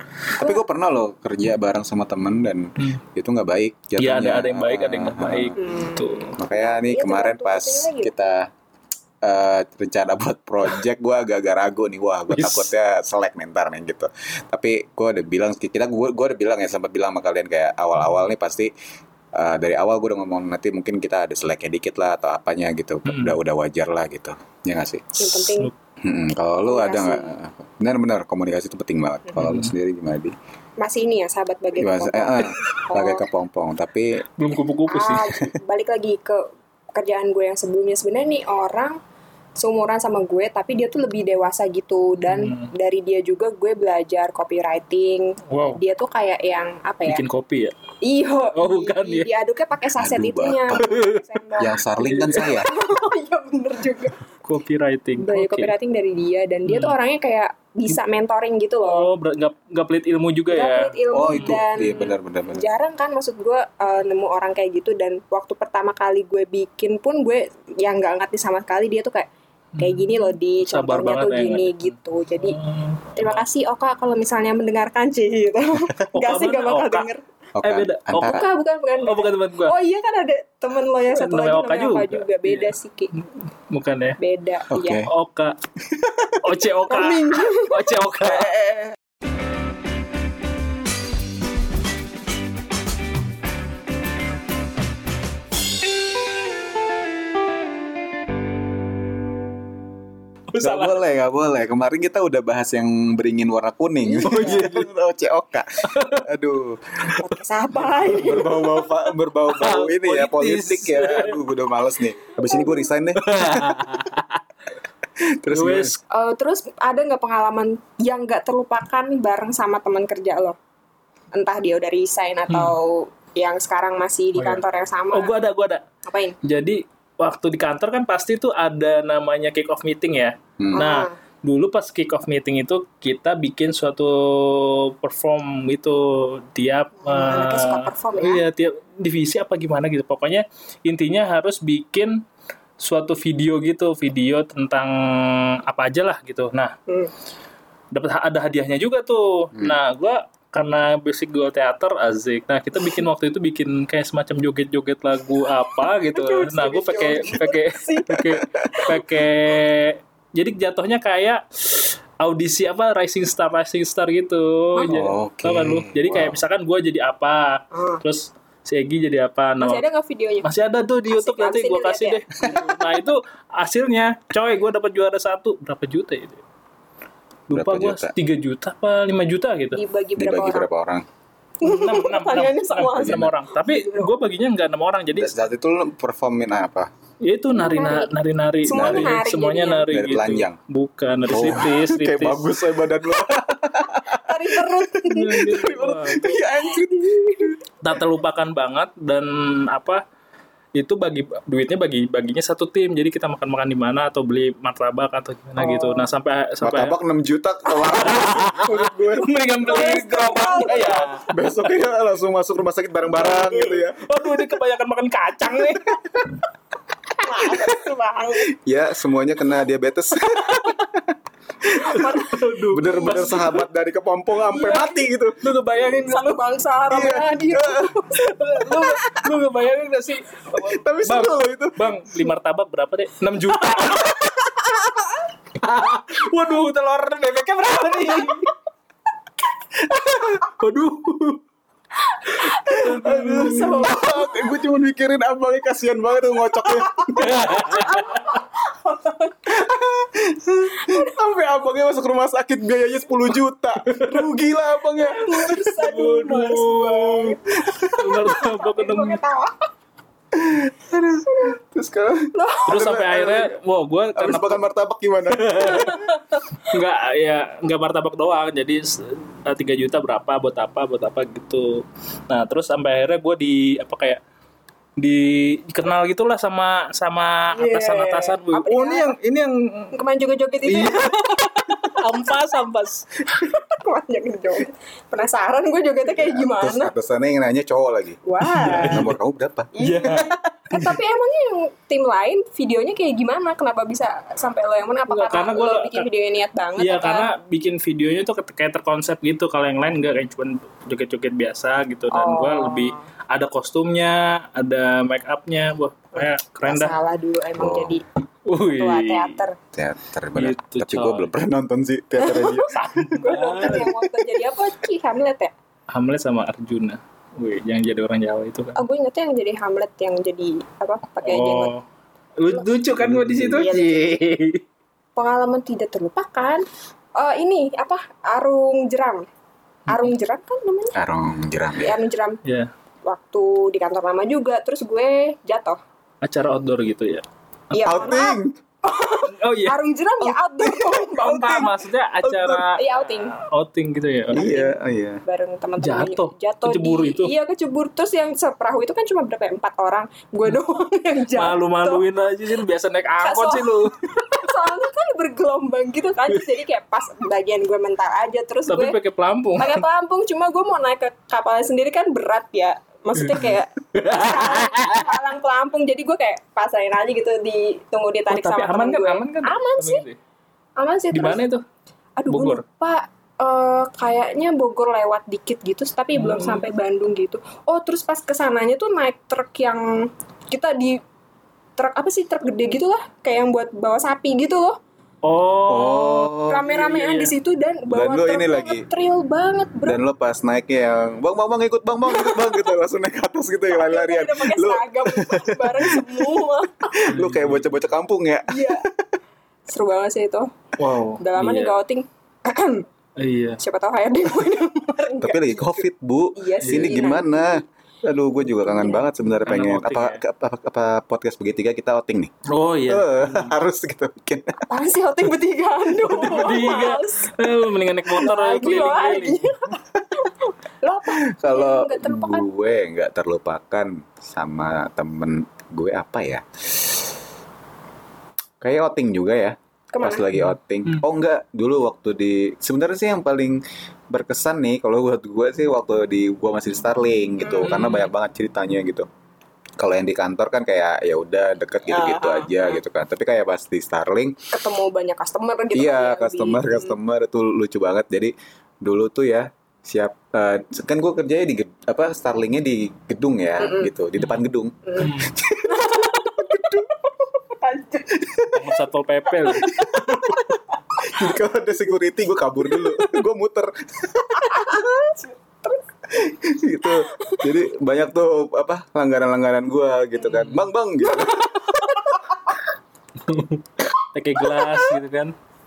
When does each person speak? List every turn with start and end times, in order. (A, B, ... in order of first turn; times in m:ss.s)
0:00.4-0:05.6 A
0:04.0-0:06.3 B
0:05.6-0:08.1 C
0:06.4-0:08.5 A
0:09.2-0:18.7 A
0:12.3-0:12.7 B
0:19.3-0:25.5 A
0:23.0-0:23.4 B
0:25.2-0:25.7 C
0:26.0-0:30.3 A
0:26.7-0:27.3 C
0:29.4-0:29.7 B
0:30.8-0:33.2 C
0:31.8-0:34.2 A
0:34.4-0:35.3 B
0:34.9-0:36.4 C
0:36.9-0:39.0 C
0:39.6-0:47.2 C
0:42.2-0:42.7 B
0:45.5-0:45.8 B
0:47.0-0:47.7 B
0:48.0-0:54.2 C
0:48.5-0:49.3 B
0:50.0-0:51.0 A
0:50.8-0:51.1 B
0:51.6-0:52.7 A
0:52.0-0:52.5 B
0:54.4-0:55.7 B
0:55.2-0:59.1 C
0:56.6-0:57.0 B
0:58.8-1:02.0 B
1:00.5-1:09.3 C
1:01.1-1:02.6 A
1:09.8-1:13.4 B
1:09.8-1:12.6 C
1:13.2-1:17.2 C
1:16.1-1:17.1 B
1:17.5-1:18.4 A
1:17.6-1:18.4 B
1:18.2-1:23.1 C
1:19.0-1:19.7 B
1:21.1-1:24.2 B
1:24.2-1:25.0 C
1:24.7-1:25.1 A
1:25.0-1:25.5 B
1:25.9-1:26.4 A
1:26.4-1:28.6 B
1:26.9-1:27.9 C
1:28.2-1:28.9 A
1:40.5-1:41.0 B
1:40.6-1:47.2 A
1:44.0-1:44.7 C
1:44.2-1:44.9 B
1:45.9-1:46.2 B
1:47.2-1:48.6 C
1:47.9-1:48.4 B
1:48.0-1:53.9 A
1:49.5-1:51.4 B
1:53.2-1:54.4 B
1:55.2-1:55.9 A
1:55.5-1:56.0 B
1:56.1-2:00.6 C
2:01.3-2:05.3 C
2:02.5-2:02.7 B
2:04.4-2:05.8 B
2:06.0-2:06.4 C
2:06.4-2:22.2 B
2:10.6-2:10.9 A
2:10.7-2:11.1 C
2:17.0-2:18.4 C
2:22.8-2:26.7 B
2:26.9-2:27.1 C
2:27.9-2:49.8 B
2:36.1-2:39.0 C
2:38.2-2:38.6 A
2:44.8-2:45.0 C
2:44.9-2:46.4 A
2:47.7-2:48.0 C
2:49.6-2:50.5 C
2:50.4-2:56.4 B
2:51.1-2:52.7 C
2:57.5-2:59.8 B
2:57.5-2:58.1 A
2:59.7-3:00.7 C
3:00.2-3:01.0 A
3:01.6-3:04.1 C
3:01.6-3:05.4 B
3:03.0-3:03.3 A
3:05.1-3:06.9 A
3:07.2-3:12.5 B
3:07.5-3:09.9 C
3:08.7-3:09.2 A
3:09.9-3:10.6 A
3:11.2-3:17.6 A
3:14.1-3:15.6 C
3:15.1-3:16.4 B
3:16.6-3:17.5 C
3:17.8-3:20.0 B
3:20.8-3:27.0 B
3:25.6-3:26.1 C
3:26.6-3:29.3 A
3:27.8-3:31.3 B
3:29.6-3:31.2 C
3:31.2-3:34.0 A
3:33.2-3:36.3 B
3:37.1-3:38.5 C
3:38.5-3:45.4 A
3:41.7-3:43.2 C
3:41.8-3:43.6 B
3:44.5-3:45.0 C
3:45.4-3:46.4 B
3:45.8-3:48.8 C
3:46.9-3:48.0 A
3:48.1-3:54.2 B
3:48.8-3:49.2 A
3:50.5-3:51.8 A
3:53.9-3:55.0 C
3:55.6-3:58.5 B
3:58.0-3:58.4 C
3:59.8-4:01.4 B
4:02.1-4:04.5 C
4:02.6-4:03.9 B
4:02.6-4:07.5 A
4:06.9-4:09.5 C
4:07.2-4:08.3 B
4:09.4-4:15.6 A
4:10.8-4:11.1 C
4:13.8-4:14.2 B
4:14.9-4:17.4 C
4:15.6-4:17.4 B
4:17.6-4:18.2 A
4:17.9-4:19.2 B
4:18.0-4:19.6 C
4:20.3-4:23.6 A
4:22.3-4:23.0 C
4:22.7-4:24.6 B
4:24.2-4:26.1 A
4:25.3-4:34.2 B
4:35.0-4:39.9 B
4:37.5-4:39.1 C
4:39.9-4:42.3 C
4:40.6-4:43.0 B
4:43.2-4:46.9 C
4:46.1-4:49.7 A
4:48.2-4:49.0 C
4:48.4-4:49.1 B
4:49.7-4:57.3 C
4:49.8-4:51.0 B
4:55.1-4:56.1 B
4:56.8-5:07.0 B
5:02.1-5:03.0 C
5:06.6-5:08.0 C
5:07.6-5:08.0 A
5:08.4-5:09.4 B
5:08.6-5:09.6 C
5:09.7-5:13.9 A
5:10.4-5:11.3 B
5:12.2-5:15.5 C
5:12.7-5:13.9 B
5:15.9-5:18.8 B
5:18.8-5:21.7 C
5:21.2-5:21.8 B
5:22.4-5:24.6 B
5:22.5-5:22.8 C
5:23.0-5:23.6 A
5:23.4-5:24.0 C
5:25.2-5:26.6 C
5:27.2-5:29.2 C
5:29.9-5:31.0 C
5:30.9-5:32.0 A
5:31.8-5:32.4 C
5:32.4-5:32.7 B
5:33.0-5:35.8 C
5:36.2-5:38.2 B
5:37.7-5:41.7 C
5:37.8-5:38.5 A
5:39.3-5:39.8 B
5:40.2-5:42.6 A
5:41.2-5:44.5 B
5:42.6-5:43.4 C
5:44.3-5:45.2 A
5:44.3-5:52.0 C
5:45.8-5:47.3 B
5:51.3-5:54.0 B
5:53.2-5:59.0 C
5:58.7-5:59.8 B
5:59.6-6:10.0 C
6:03.2-6:05.2 B
6:08.3-6:10.2 B
6:10.8-6:11.4 C
6:11.1-6:11.6 B
6:12.2-6:21.0 C
6:12.3-6:12.6 B
6:16.1-6:16.6 B
6:21.8-6:24.8 C
6:25.2-6:27.3 B
6:25.7-6:26.6 A
6:26.4-6:30.0 C
6:27.9-6:28.8 A
6:29.8-6:36.4 A
6:32.0-6:32.7 C
6:33.7-6:37.0 C
6:36.9-6:39.1 A
6:37.1-6:37.8 B
6:38.5-6:38.8 C
6:39.7-6:40.6 C
6:40.8-6:41.8 B
6:41.2-6:42.8 C
6:43.2-6:43.6 B
6:43.6-6:47.6 C
6:45.2-6:52.3 A
6:46.6-6:47.0 B
6:48.5-6:49.0 C
6:49.4-6:50.2 B
6:52.4-6:53.5 B
6:52.8-6:54.6 A
6:54.6-6:57.4 C
6:56.0-6:59.5 B
6:58.1-7:02.5 C
7:01.1-7:07.0 A
7:08.6-7:19.1 A
7:09.9-7:10.2 C
7:10.3-7:11.0 B
7:17.4-7:17.7 C
7:17.6-7:18.1 B
7:19.8-7:24.4 A
7:21.9-7:22.8 C
7:24.5-7:27.0 C
7:25.7-7:36.9 A
7:33.6-7:33.9 C
7:34.2-7:34.4 B
7:34.8-7:35.1 C
7:35.0-7:35.4 B
7:35.6-7:38.2 C
7:38.1-7:38.7 A
7:38.5-7:40.5 B
7:39.5-7:41.3 C
7:39.5-7:40.4 A
7:41.0-7:44.8 A
7:44.4-7:45.8 C
7:46.1-7:52.2 A
7:46.9-7:47.4 C
7:50.3-7:50.6 B
7:51.6-7:52.3 C
7:53.2-7:55.3 B
7:54.5-7:54.9 C